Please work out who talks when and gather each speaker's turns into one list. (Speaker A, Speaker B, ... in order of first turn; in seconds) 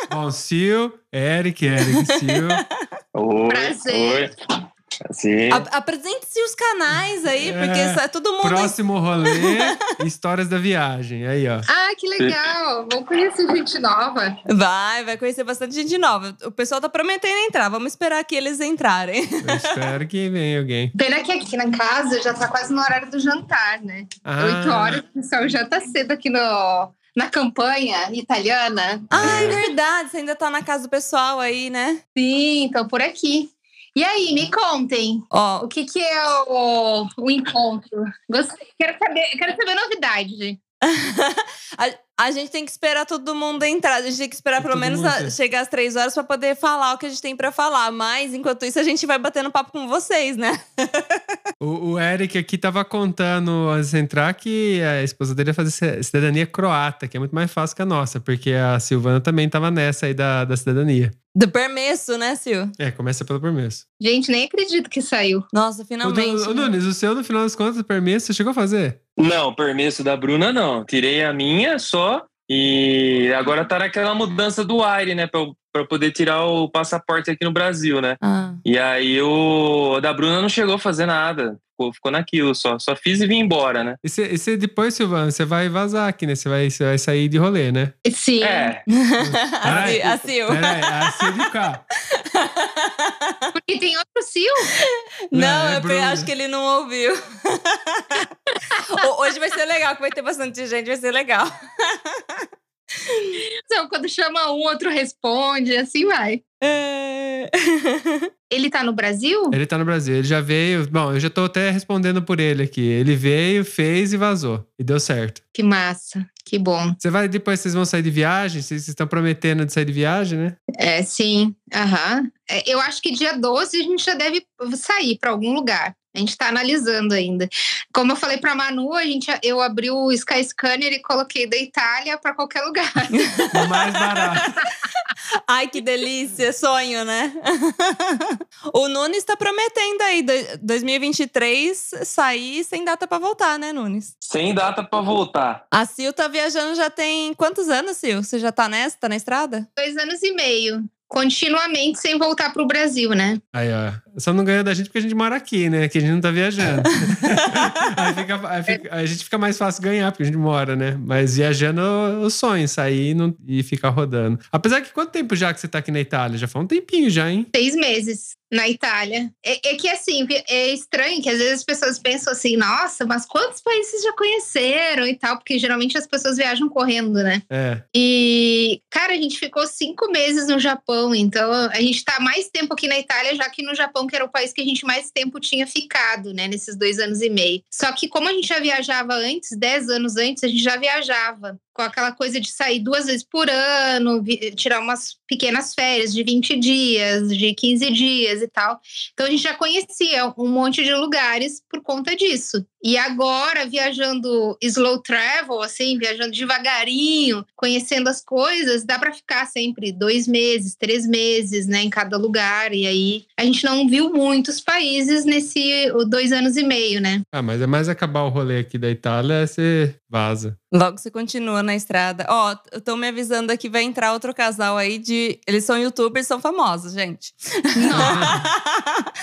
Speaker A: 0.1-2.6, 7.4-11.7, 19.4-20.9, 24.2-25.0, 29.2-29.6, 44.6-45.4, 51.6-61.1, 62.8-63.8, 66.0-69.0, 84.0-87.9, 89.2-91.8, 95.3-96.3, 109.5-115.4, 117.0-120.6, 133.5-134.5, 153.5-167.5, 177.5-177.8, 217.3-220.6, 228.0-228.4
Speaker B: 1.9-2.6, 5.5-9.7, 14.5-19.8, 29.1-32.0, 35.3-35.7, 40.8-51.2, 61.4-62.7, 65.5-66.7, 78.2-78.6, 88.9-91.3, 92.1-93.5, 94.8-102.4, 103.1-103.4, 106.6-108.3, 133.2-133.6, 135.5-144.1, 145.7-149.7, 220.7-229.1
Speaker C: 3.1-4.3, 5.1-5.7, 69.2-84.0, 88.4-88.8, 89.7-90.1, 144.2-145.6
Speaker D: 3.5-4.3, 11.7-14.4, 20.9-29.5, 32.2-40.6, 64.0-65.5, 88.0-88.7, 93.6-94.7, 103.7-106.4, 108.5-109.6, 115.5-117.0, 120.8-133.3, 149.8-153.4, 167.5-177.4, 177.9-217.2, 227.8-228.3